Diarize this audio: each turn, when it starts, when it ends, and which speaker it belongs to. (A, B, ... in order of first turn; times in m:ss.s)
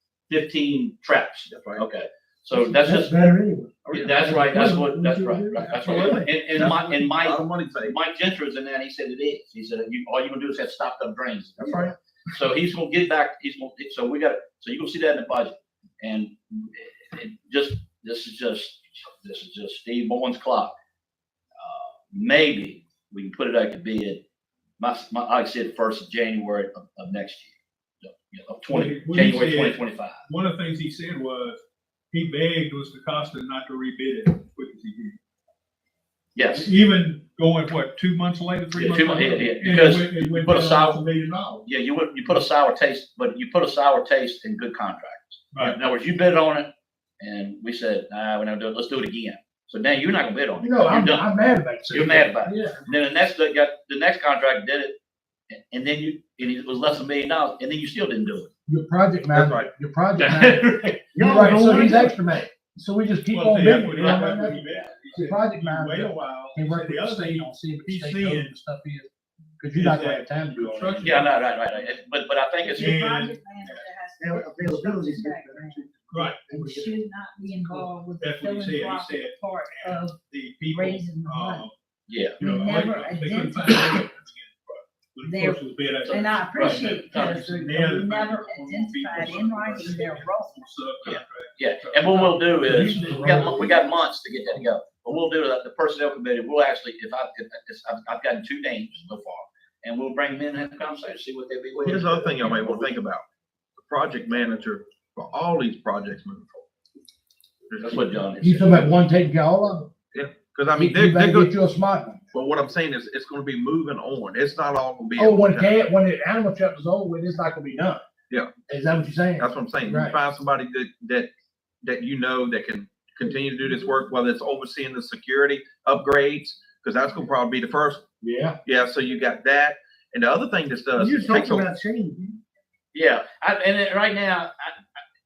0:00.3-0:03.1 A
0:01.5-0:01.8 B
0:02.5-0:06.3 C
0:03.9-0:20.7 A
0:06.5-0:07.9 B
0:11.6-0:11.9 C
0:21.6-0:24.2 A
0:24.8-0:30.2 A
0:28.7-0:35.2 D
0:36.3-0:36.7 A
0:36.5-0:41.6 D
0:38.7-0:41.0 A
0:41.6-0:46.7 A
0:47.2-0:51.3 A
0:50.6-0:52.8 E
0:51.9-0:54.9 A
0:55.5-0:58.5 A
0:58.7-1:04.6 E
0:59.3-0:59.7 B
1:00.2-1:01.0 A
1:01.1-1:02.2 C
1:03.3-1:08.5 D
1:05.1-1:09.1 E
1:09.6-1:11.2 E
1:09.7-1:11.3 D
1:11.0-1:12.9 A
1:12.6-1:15.8 F
1:12.7-1:13.8 D
1:14.2-1:17.0 C
1:16.1-1:16.5 D
1:16.5-1:20.2 F
1:17.6-1:17.9 C
1:18.2-1:21.7 D
1:20.7-1:21.7 F
1:22.1-1:22.4 A
1:22.4-1:33.7 D
1:22.4-1:24.0 F
1:25.2-1:30.7 F
1:26.0-1:27.4 A
1:31.0-1:43.0 A
1:32.7-1:33.7 E
1:41.8-1:43.2 B
1:43.8-1:46.6 B
1:47.8-1:48.8 A
1:48.4-1:49.9 E
1:50.1-1:51.5 B
1:50.7-1:52.2 E
1:52.3-1:55.7 B
1:55.2-1:58.0 E
1:58.7-2:00.2 E
1:59.4-2:01.3 B
2:01.8-2:08.0 B
2:08.2-2:08.6 E
2:08.6-2:11.7 B
2:10.9-2:12.3 C
2:12.9-2:14.8 A